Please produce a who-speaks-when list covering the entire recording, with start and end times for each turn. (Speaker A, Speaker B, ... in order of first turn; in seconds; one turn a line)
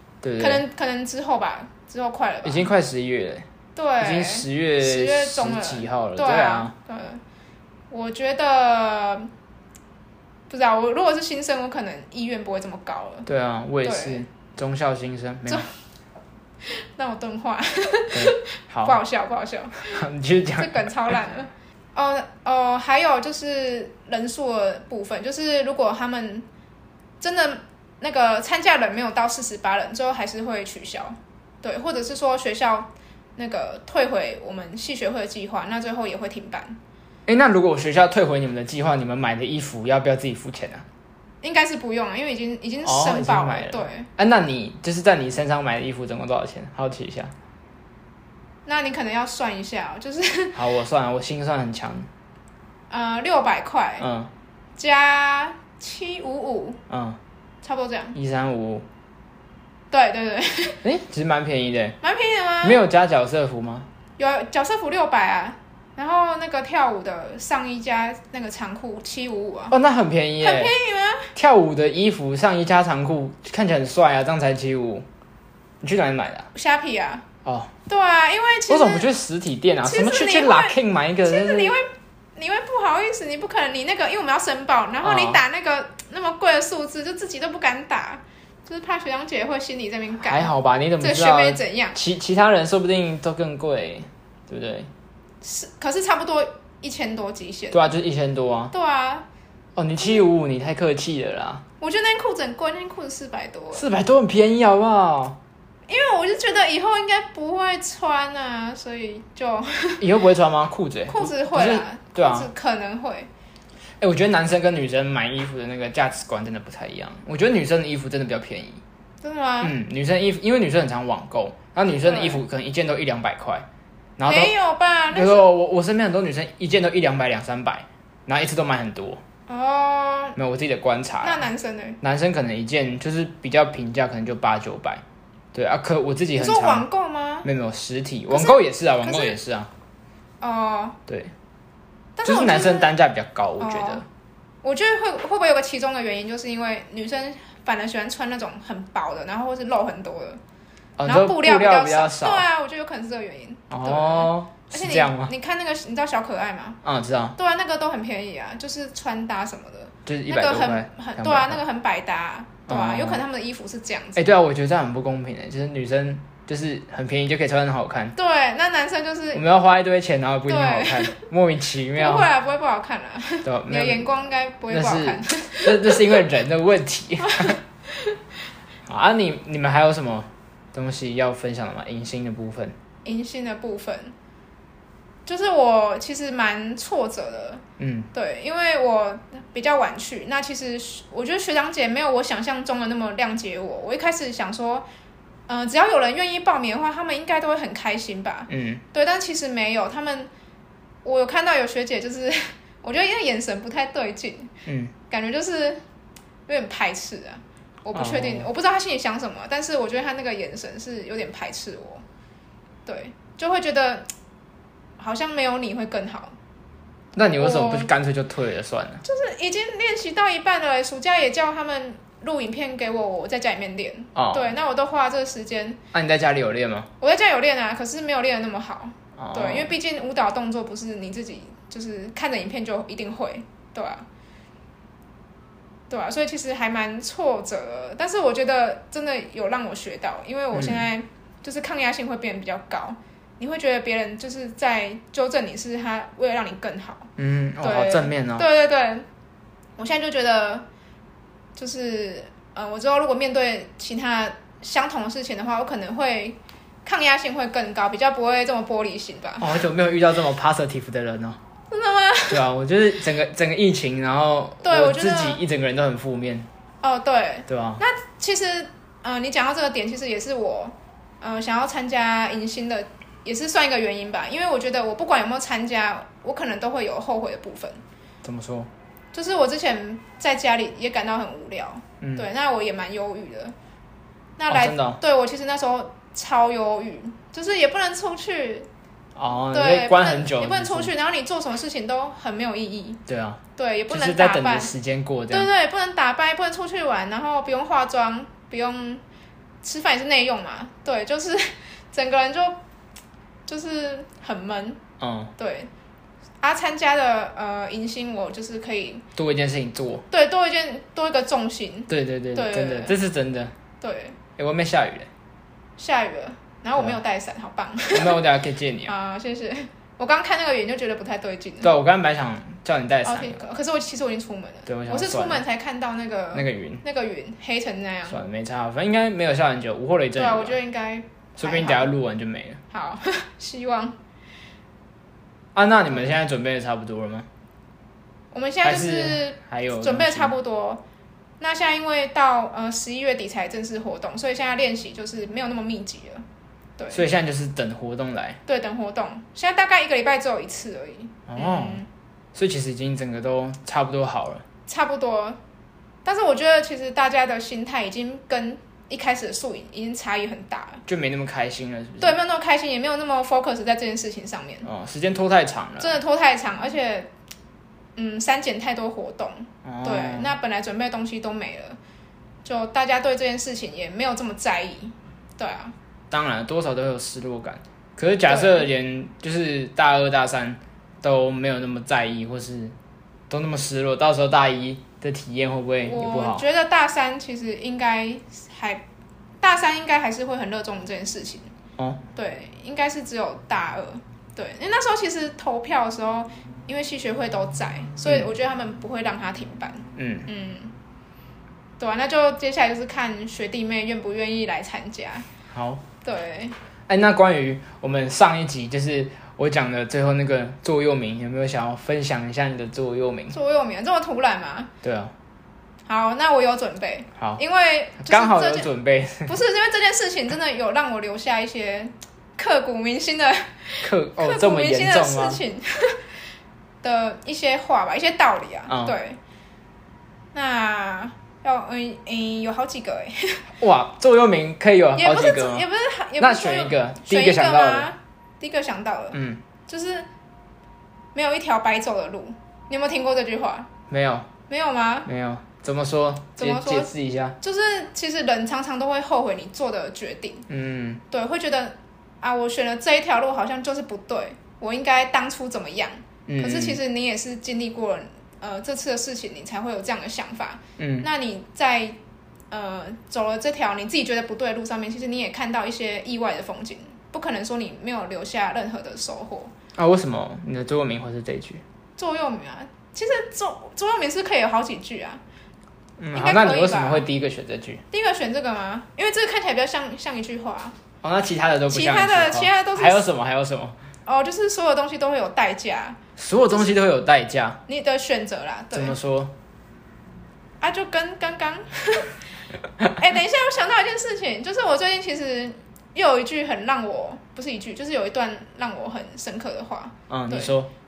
Speaker A: 0.2-0.6
Speaker B: 0.4-2.7
Speaker A: 2.4-3.5
Speaker B: 3.8-7.2
Speaker A: 4.0-6.7
Speaker B: 7.9-9.3
Speaker B: 10.5-13.3
Speaker A: 13.3-15.7
Speaker B: 13.8-14.2
Speaker B: 16.6-20.0
Speaker A: 18.1-19.0
Speaker A: 19.8-20.9
Speaker B: 20.6-26.5
Speaker B: 27.2-36.8
Speaker A: 37.3-40.9
Speaker B: 41.4-44.1
Speaker A: 42.8-47.3
Speaker B: 48.7-50.6
Speaker A: 50.5-52.1
Speaker B: 52.9-54.1
Speaker A: 54.0-54.3
Speaker B: 54.8-56.8
Speaker A: 56.9-57.2
Speaker B: 57.6-58.2
Speaker A: 58.1-58.9
Speaker B: 59.9-60.8
Speaker A: 60.8-62.0
Speaker B: 62.0-62.8
Speaker A: 62.6-63.9
Speaker B: 64.2-69.8
Speaker A: 69.7-70.7
Speaker B: 70.4-71.3
Speaker A: 71.3-75.1
Speaker A: 75.8-76.5
Speaker B: 76.5-77.3
Speaker A: 77.5-77.7
Speaker B: 77.9-79.1
Speaker A: 78.7-81.8
Speaker B: 79.8-92.0
Speaker A: 85.0-85.4
Speaker A: 90.2-94.9
Speaker B: 95.4-97.9
Speaker A: 97.7-98.7
Speaker B: 98.7-99.3
Speaker A: 99.8-101.7
Speaker B: 101.8-103.9
Speaker A: 103.7-105.4
Speaker B: 105.9-110.1
Speaker A: 110.0-112.5
Speaker B: 111.1-113.3
Speaker A: 114.0-118.8
Speaker B: 119.2-119.8
Speaker A: 119.6-123.7
Speaker B: 121.9-122.4
Speaker A: 124.2-124.5
Speaker B: 124.3-125.5
Speaker A: 125.1-129.2
Speaker B: 129.5-130.4
Speaker A: 130.4-131.5
Speaker B: 131.2-132.0
Speaker A: 132.0-135.0
Speaker A: 135.5-136.9
Speaker B: 136.4-137.5
Speaker A: 137.4-139.7
Speaker B: 138.3-139.4
Speaker B: 140.4-141.0
Speaker B: 142.2-142.9
Speaker A: 142.2-144.1
Speaker B: 143.6-144.0
Speaker B: 144.6-150.4
Speaker A: 151.0-152.5
Speaker B: 151.1-156.8
Speaker A: 153.7-155.3
Speaker A: 156.8-157.4
Speaker B: 157.4-164.3
Speaker A: 160.1-161.6
Speaker A: 162.7-163.2
Speaker A: 164.2-168.1
Speaker B: 168.2-169.4
Speaker A: 169.3-172.3
Speaker B: 170.5-171.3
Speaker B: 172.0-176.3
Speaker A: 173.4-174.1
Speaker A: 174.7-177.6
Speaker B: 177.2-178.2
Speaker A: 178.9-182.8
Speaker B: 183.1-184.2
Speaker B: 185.3-194.8
Speaker A: 187.8-188.1
Speaker B: 195.5-200.3
Speaker A: 198.5-198.8
Speaker B: 201.0-204.5
Speaker A: 204.7-204.9
Speaker B: 205.1-205.8
Speaker B: 206.5-212.0
Speaker A: 207.9-208.5
Speaker B: 212.9-214.1
Speaker B: 215.0-216.3
Speaker A: 217.2-219.0
Speaker B: 217.4-217.9
Speaker B: 219.0-225.8
Speaker A: 224.2-224.5
Speaker A: 225.9-226.9
Speaker B: 227.0-234.1
Speaker A: 229.2-229.7
Speaker B: 235.9-247.1
Speaker A: 240.5-240.8
Speaker A: 247.2-248.5
Speaker B: 247.6-249.1
Speaker B: 249.8-250.7
Speaker B: 251.6-259.6
Speaker A: 259.4-261.4
Speaker B: 261.7-262.4
Speaker A: 262.3-266.5
Speaker B: 264.6-265.4
Speaker B: 266.8-277.8
Speaker A: 267.5-267.8
Speaker A: 278.2-278.7
Speaker B: 279.1-283.5
Speaker A: 282.0-282.3
Speaker B: 284.4-288.7
Speaker A: 284.5-285.0
Speaker A: 289.2-290.9
Speaker B: 289.5-293.0
Speaker A: 293.1-295.5
Speaker B: 293.6-294.7
Speaker B: 295.3-299.0
Speaker B: 299.6-302.6
Speaker B: 303.5-304.8
Speaker A: 305.0-305.3
Speaker B: 305.4-305.7
Speaker B: 306.4-309.1
Speaker A: 309.2-310.1
Speaker B: 310.1-313.0
Speaker A: 311.9-313.5
Speaker B: 313.8-314.2
Speaker A: 314.4-315.1
Speaker B: 315.8-318.2
Speaker A: 317.9-318.9
Speaker B: 318.9-321.7
Speaker A: 321.6-323.4
Speaker B: 323.0-328.2
Speaker A: 324.7-325.4
Speaker A: 326.3-326.8
Speaker A: 328.1-330.6
Speaker B: 330.2-331.9
Speaker A: 331.4-332.6
Speaker B: 332.7-333.9
Speaker A: 335.6-337.3
Speaker B: 338.3-340.8
Speaker A: 338.6-340.3
Speaker B: 341.4-346.2
Speaker B: 346.8-347.1
Speaker A: 346.9-348.4
Speaker B: 348.5-351.9
Speaker A: 351.3-351.8
Speaker A: 352.3-354.4
Speaker B: 354.7-355.4
Speaker B: 356.1-360.8
Speaker A: 360.9-362.2
Speaker B: 362.0-364.7
Speaker A: 364.6-366.0
Speaker B: 365.8-367.1
Speaker B: 368.0-371.8
Speaker A: 369.6-370.3
Speaker B: 372.4-375.8
Speaker A: 376.1-382.7
Speaker B: 378.3-378.7
Speaker A: 383.3-386.4
Speaker B: 385.8-388.8
Speaker B: 389.4-391.5
Speaker B: 392.2-400.7
Speaker A: 400.0-400.3
Speaker B: 401.8-405.3
Speaker A: 405.5-405.8
Speaker B: 406.0-406.5
Speaker A: 406.9-413.4
Speaker B: 413.3-414.7
Speaker A: 414.8-415.1
Speaker B: 415.9-418.7
Speaker A: 418.0-419.4
Speaker B: 419.3-426.0
Speaker A: 423.8-425.4
Speaker B: 426.8-429.2
Speaker A: 428.7-429.0
Speaker B: 430.3-433.5
Speaker A: 433.6-435.7
Speaker B: 434.9-440.1
Speaker A: 436.2-437.9
Speaker A: 439.1-439.4
Speaker B: 441.1-443.7
Speaker A: 443.9-444.3
Speaker B: 444.5-445.1
Speaker A: 445.1-447.4
Speaker B: 446.4-450.5
Speaker A: 450.5-451.0
Speaker B: 451.1-462.0
Speaker A: 456.3-456.8
Speaker A: 460.8-461.1
Speaker B: 462.5-469.5
Speaker A: 469.8-471.6
Speaker B: 472.0-475.2
Speaker A: 476.0-477.8
Speaker B: 476.1-477.1
Speaker B: 477.9-480.8
Speaker A: 481.0-483.8
Speaker B: 481.7-483.1
Speaker B: 484.1-486.0
Speaker A: 486.2-487.6
Speaker B: 487.7-489.0
Speaker A: 488.7-489.3
Speaker B: 490.6-492.2
Speaker B: 493.0-500.6
Speaker A: 500.1-500.7